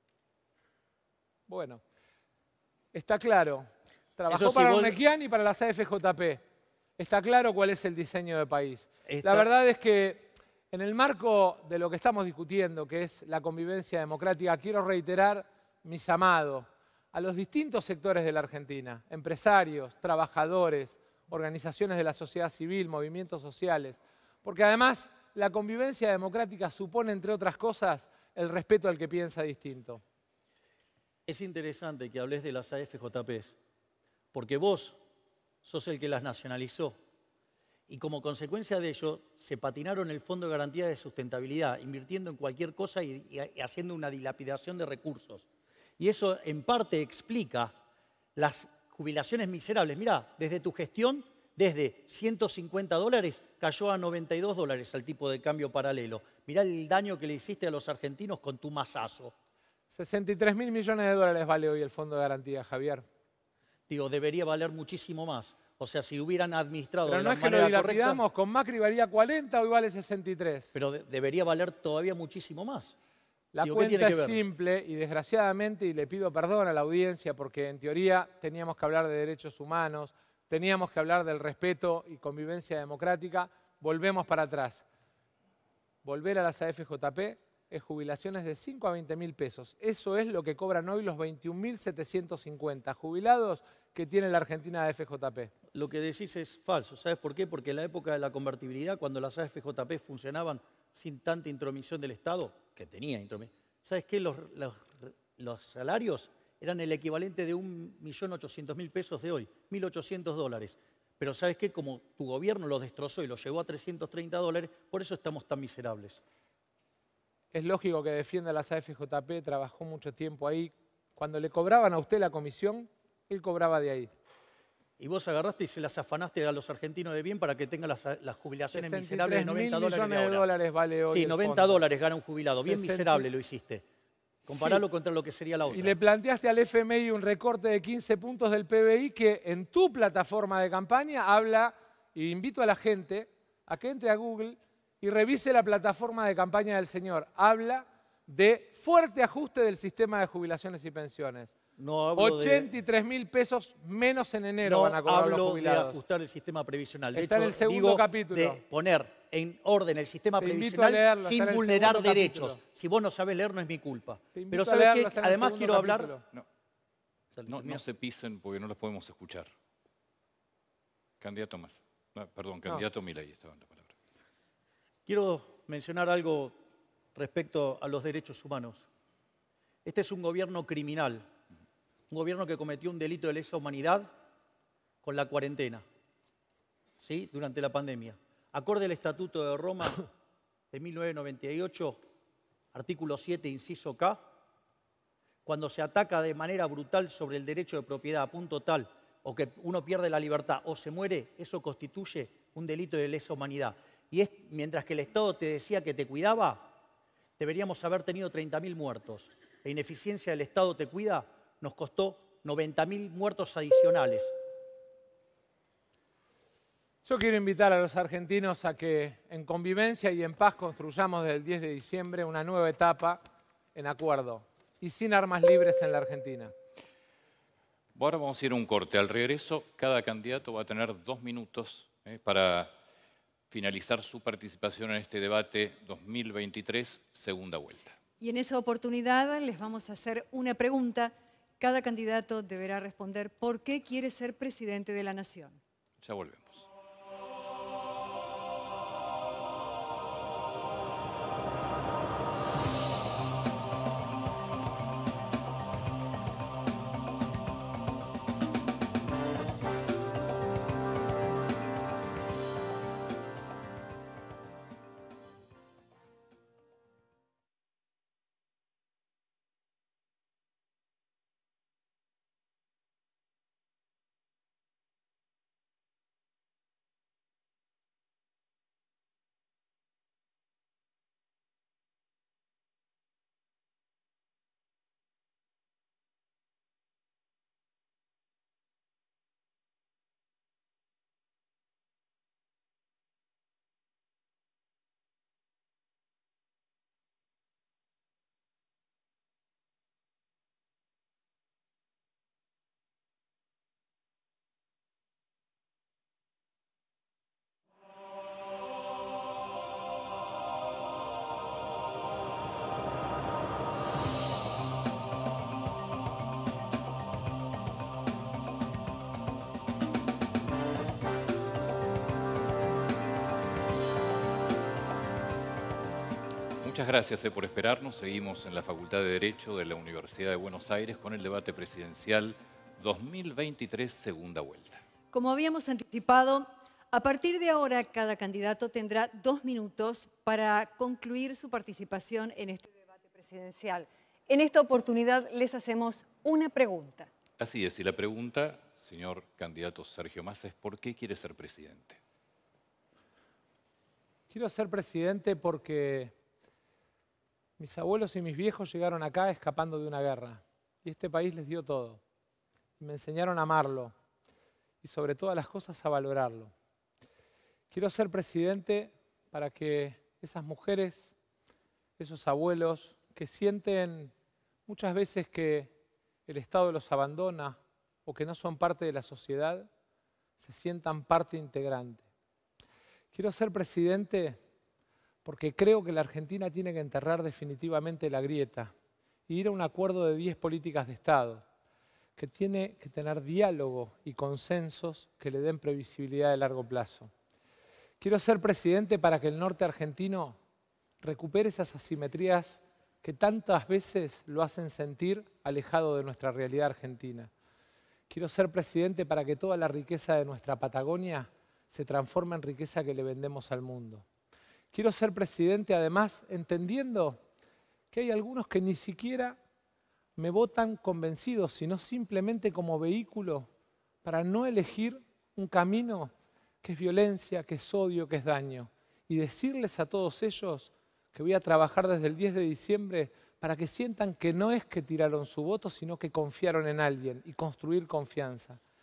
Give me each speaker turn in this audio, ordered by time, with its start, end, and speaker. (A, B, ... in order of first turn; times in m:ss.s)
0:01.5-0:01.8 A
0:02.9-0:06.4 A
0:04.3-0:05.0 B
0:07.0-0:30.0 A
0:09.1-0:09.5 B
0:31.3-0:33.6 B
0:34.3-0:35.0 B
0:35.6-0:37.0 B
0:37.9-0:45.4 B
0:46.0-0:47.8 B
0:48.4-0:59.3 B
0:59.9-1:03.0 A
1:03.9-1:08.2 B
1:07.0-1:10.7 A
1:10.7-1:12.9 B
1:13.5-1:24.8 A
1:13.6-1:14.4 B
1:26.0-1:35.5 A
1:35.7-1:56.2 B
1:57.5-2:04.1 A
2:05.0-2:10.5 B
2:08.7-2:11.8 A
2:11.1-2:13.8 B
2:12.6-2:13.3 A
2:14.4-2:16.0 B
2:15.6-2:31.5 A
2:31.8-2:32.7 B
2:32.2-2:36.0 A
2:34.6-2:46.1 B
2:37.1-2:38.6 A
2:40.4-2:42.6 A
2:44.3-2:46.2 A
2:47.3-2:47.8 B
2:47.4-2:49.5 C
2:51.2-2:53.9 C
2:55.0-2:56.5 B
2:57.1-2:58.9 B
2:59.8-3:01.3 B
3:02.1-3:04.1 B
3:05.0-3:05.8 B
3:07.0-3:10.1 B
3:10.7-3:12.0 B
3:12.7-3:14.2 B
3:15.4-3:26.7 B
3:27.4-3:34.3 B
3:37.0-3:43.2 A
3:43.7-3:46.5 A
3:47.9-3:52.7 C
3:53.5-3:58.0 C
3:58.2-4:05.6 D
4:06.0-4:06.7 C
5:26.6-5:34.8 C
5:35.1-5:47.1 D
5:47.4-5:52.0 C
5:54.3-5:56.1 A
5:57.6-6:02.0 A
6:02.8-6:03.9 A
6:04.8-6:06.5 A
6:07.7-6:11.1 A
6:12.0-6:14.1 A
6:14.7-6:15.7 A
6:16.3-6:19.7 A
6:20.4-6:22.0 A
6:23.1-6:24.4 A
6:25.2-6:28.7 A
6:29.3-6:31.4 A
6:32.2-6:37.1 A
6:38.0-6:40.4 A
6:41.0-6:47.3 A
6:48.1-6:54.0 A
6:54.7-6:57.2 A
6:57.9-6:59.4 A
7:00.2-7:03.5 A
7:04.0-7:06.1 A
7:06.6-7:18.6 A